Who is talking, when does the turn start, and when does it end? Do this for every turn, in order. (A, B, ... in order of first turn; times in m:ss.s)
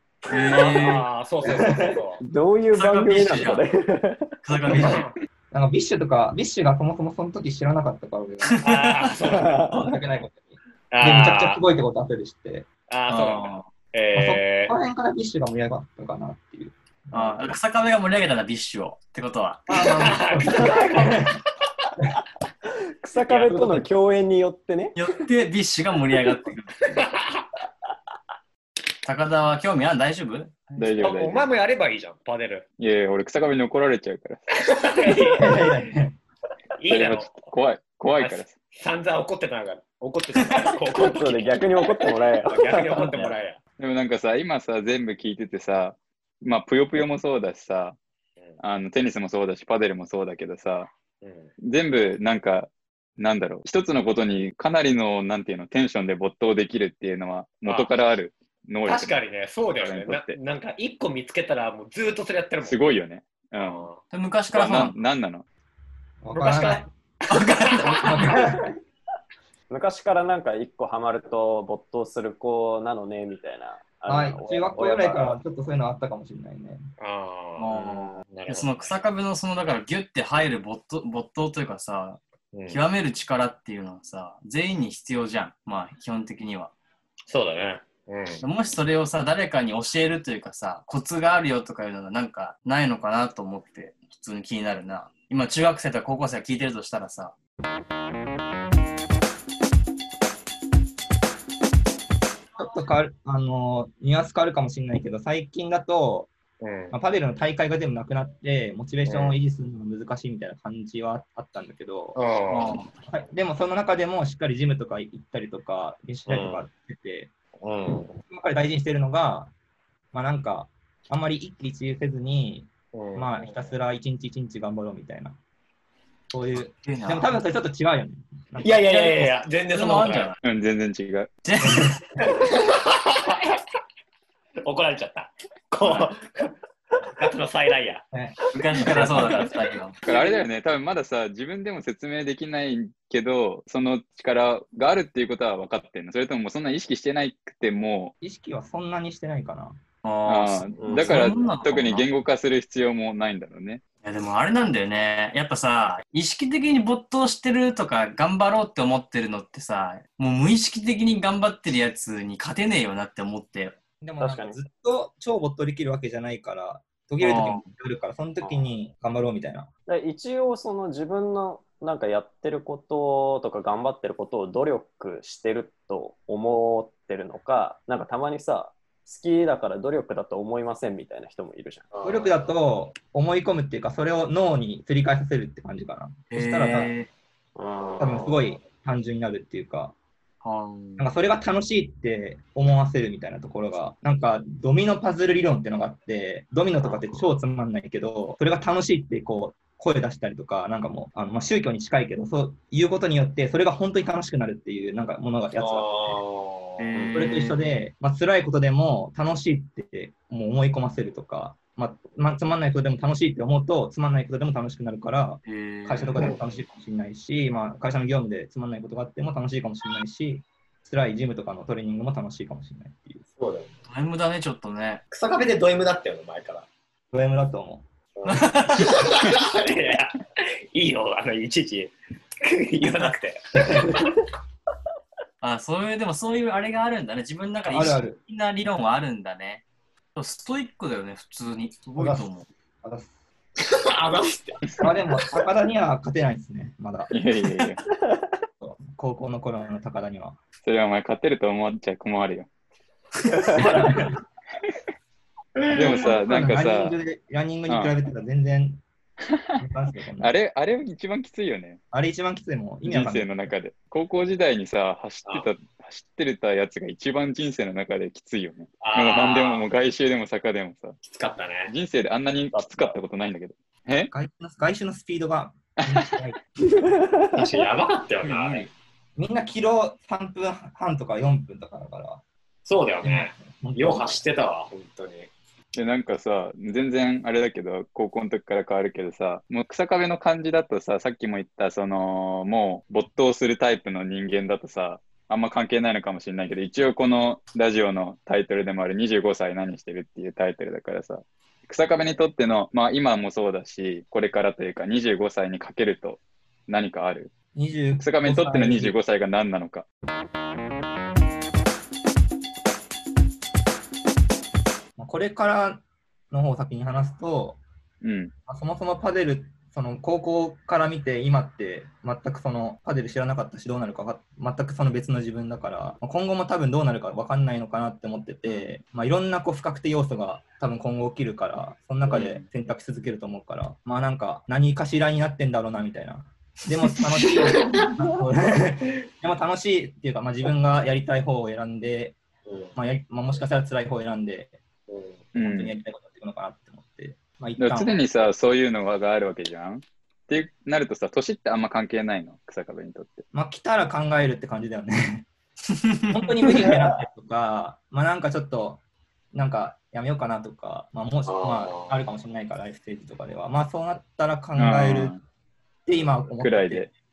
0:00.3-0:01.0 A
0:00.4-0:02.2 B
0:01.4-0:02.0 C
0:02.2-0:04.4 D
0:02.7-0:03.6 A
0:04.4-0:05.0 A
0:04.7-0:08.7 C
0:04.7-0:05.1 B
0:08.5-0:09.1 A
0:08.6-0:09.6 B
0:09.3-0:09.9 D
0:09.6-0:12.7 C
0:10.9-0:11.6 B
0:12.9-0:14.7 B
0:13.1-0:13.7 A
0:14.1-0:17.6 C
0:17.1-0:20.1 A
0:19.7-0:21.4 C
0:19.7-0:21.4 B
0:23.0-0:25.0 D
0:23.2-0:23.8 B
0:24.9-0:27.0 A
0:27.0-0:27.4 B
0:29.0-0:31.0 A
0:30.8-0:31.4 E
0:31.0-0:32.6 B
0:32.8-0:34.4 E
0:34.6-0:35.7 B
0:35.3-0:36.2 C
0:36.8-0:37.5 B
0:36.9-0:38.6 E
0:38.1-0:43.6 B
0:40.9-0:43.3 D
0:42.9-0:43.3 A
0:43.8-0:48.0 E
0:48.6-0:50.9 E
0:51.2-0:51.5 B
0:51.6-0:59.2 E
0:57.6-0:57.9 B
0:58.8-1:02.9 B
0:59.8-1:00.4 E
1:02.6-1:03.9 E
1:03.6-1:04.0 B
1:04.1-1:05.0 A
1:04.5-1:05.4 E
1:06.2-1:06.9 C
1:06.3-1:08.1 B
1:07.3-1:08.4 A
1:07.9-1:08.7 C
1:09.7-1:15.4 D
1:14.1-1:16.8 C
1:17.0-1:18.9 B
1:17.6-1:26.7 A
1:22.5-1:22.8 B
1:27.3-1:28.4 B
1:28.4-1:37.3 A
1:42.6-1:46.3 C
1:46.6-1:46.9 B
1:46.9-1:52.2 C
1:49.1-1:49.4 B
1:52.1-1:52.8 B
1:52.5-1:52.9 A
1:53.0-1:57.3 C
1:56.3-1:56.6 B
1:57.6-1:58.2 B
1:58.3-1:59.5 C
2:00.1-2:05.4 C
2:02.9-2:03.6 B
2:06.3-2:09.3 C
2:06.8-2:07.4 A
2:08.6-2:10.3 B
2:09.1-2:10.4 A
2:10.4-2:11.3 E
2:11.4-2:12.0 A
2:11.6-2:12.2 C
2:12.2-2:13.6 B
2:14.6-2:18.0 B
2:15.8-2:16.1 A
2:18.1-2:19.4 C
2:18.5-2:20.0 A
2:20.0-2:28.1 E
2:20.1-2:20.4 B
2:28.2-2:29.8 C
2:30.0-2:32.1 A
2:30.3-2:33.8 E
2:30.8-2:31.3 D
2:34.0-2:43.7 A
2:44.0-2:49.7 C
2:44.2-2:44.6 D
2:47.2-2:47.7 A
2:49.9-3:01.9 D
3:01.9-3:02.4 B
3:02.0-3:06.9 C
3:06.3-3:07.1 A
3:07.6-3:08.3 D
3:07.9-3:08.3 B
3:08.0-3:09.9 C
3:10.4-3:11.1 A
3:11.0-3:26.2 C
3:25.6-3:26.9 B
3:26.8-3:27.7 A
3:27.1-3:43.2 C
3:35.4-3:36.3 A
3:36.2-3:36.4 B
3:43.4-3:43.8 B
3:43.8-3:45.0 A
3:45.1-3:46.7 B
3:47.1-3:47.8 C
3:48.2-3:54.2 B
3:48.2-3:49.0 A
3:53.6-3:54.0 C
3:55.4-3:59.6 A
3:57.7-3:58.2 C
4:00.1-4:02.5 A
4:02.0-4:02.2 C
4:02.8-4:03.1 C
4:03.6-4:04.6 B
4:04.8-4:07.1 C
4:07.1-4:07.8 E
4:08.6-4:10.4 C
4:10.6-4:12.5 E
4:13.4-4:13.8 D
4:13.5-4:14.2 C
4:15.6-4:16.1 B
4:15.7-4:17.0 E
4:15.7-4:18.8 C
4:19.3-4:19.6 E
4:19.6-4:20.3 C
4:20.2-4:21.8 E
4:21.9-4:23.5 C
4:22.8-4:31.0 E
4:28.8-4:29.7 B
4:31.0-4:31.7 B
4:31.7-4:34.1 E
4:32.5-4:33.0 D
4:34.1-4:36.4 C
4:35.8-4:36.1 E
4:36.7-4:37.6 D
4:37.3-4:38.7 B
4:38.2-4:38.7 A
4:39.2-4:42.2 C
4:42.6-4:45.3 B
4:43.0-4:44.2 C
4:45.7-5:07.3 E
5:07.5-5:08.9 C
5:08.0-5:09.8 E
5:15.0-5:17.6 C
5:18.0-5:18.3 E
5:18.5-5:42.2 C
5:37.2-5:37.9 B
5:42.4-5:42.7 B
5:42.7-5:44.6 C
5:44.9-5:45.2 B
5:45.3-5:45.7 E
5:45.3-5:47.9 C
5:47.6-5:53.2 E
5:53.3-5:55.3 C
5:55.7-5:56.3 A
5:56.1-5:58.8 C
5:59.3-6:05.2 C
6:01.2-6:02.0 B
6:04.6-6:05.2 E
6:05.8-6:06.8 C
6:06.4-6:06.9 E